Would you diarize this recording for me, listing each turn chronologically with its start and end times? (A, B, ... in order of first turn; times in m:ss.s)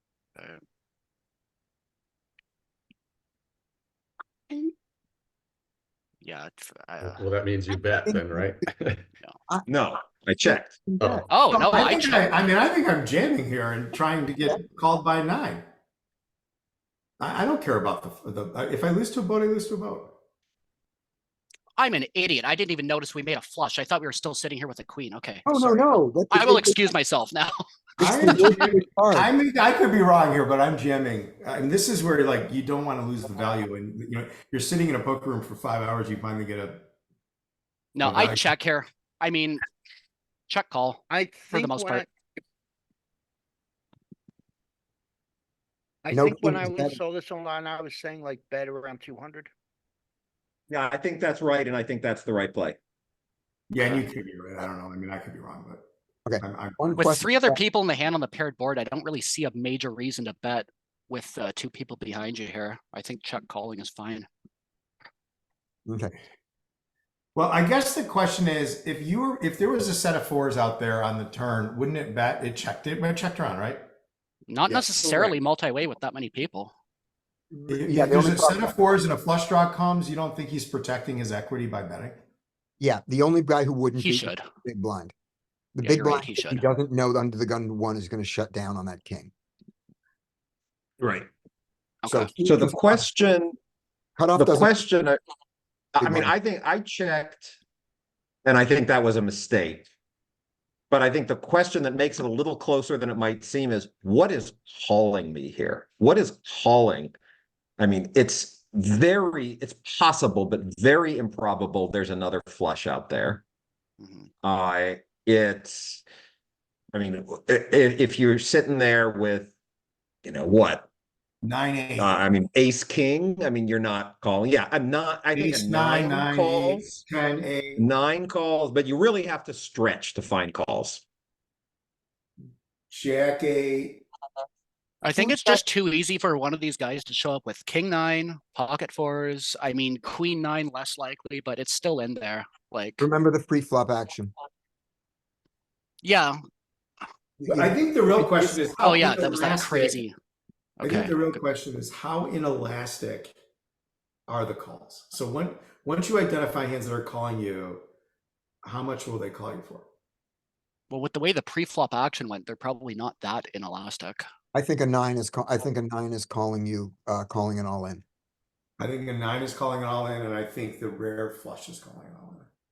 0:06.2-0:07.2 A
0:07.0-0:09.0 B
0:09.7-0:10.7 C
0:10.4-0:12.0 D
0:11.0-0:11.4 B
0:11.3-0:12.4 A
0:11.6-0:15.6 E
0:17.2-0:20.1 E
0:21.8-0:28.7 A
0:25.4-0:26.9 D
0:28.0-0:29.3 D
0:28.0-0:36.8 E
0:38.0-0:39.6 A
0:38.0-0:38.5 E
0:40.5-0:42.0 A
0:41.1-0:42.1 F
0:46.0-0:49.5 F
0:46.1-0:47.0 D
0:50.7-0:52.8 C
0:53.7-0:55.8 E
0:56.3-0:57.6 D
0:56.4-0:56.8 E
0:57.0-1:04.3 A
1:05.9-1:06.2 D
1:07.4-1:13.8 E
1:14.5-1:16.7 A
1:17.5-1:18.8 D
1:17.7-1:22.2 E
1:22.8-1:25.1 D
1:24.0-1:24.4 A
1:25.8-1:29.3 D
1:25.8-1:26.7 A
1:31.0-1:31.3 C
1:32.0-1:32.3 A
1:32.1-1:33.1 D
1:32.4-1:33.6 C
1:34.2-1:34.8 D
1:34.4-1:35.2 C
1:36.0-1:37.6 C
1:36.0-1:36.3 D
1:38.4-1:39.9 C
1:40.9-1:47.2 C
1:47.8-1:53.4 C
1:54.0-1:54.3 A
1:54.4-1:56.0 C
1:56.9-1:59.5 C
2:00.2-2:00.9 C
2:01.4-2:02.2 E
2:02.0-2:06.8 C
2:05.3-2:07.8 E
2:07.8-2:11.0 C
2:12.9-2:14.0 E
2:15.0-2:23.1 A
2:23.0-2:24.3 D
2:26.0-2:26.4 A
2:27.4-2:27.7 D
2:27.4-2:30.0 E
2:28.8-2:30.2 A
2:30.8-2:31.2 A
2:30.8-2:33.3 E
2:34.3-2:37.8 E
2:38.6-2:39.9 E
2:40.9-2:44.2 A
2:44.5-2:48.0 D
2:48.8-2:52.5 E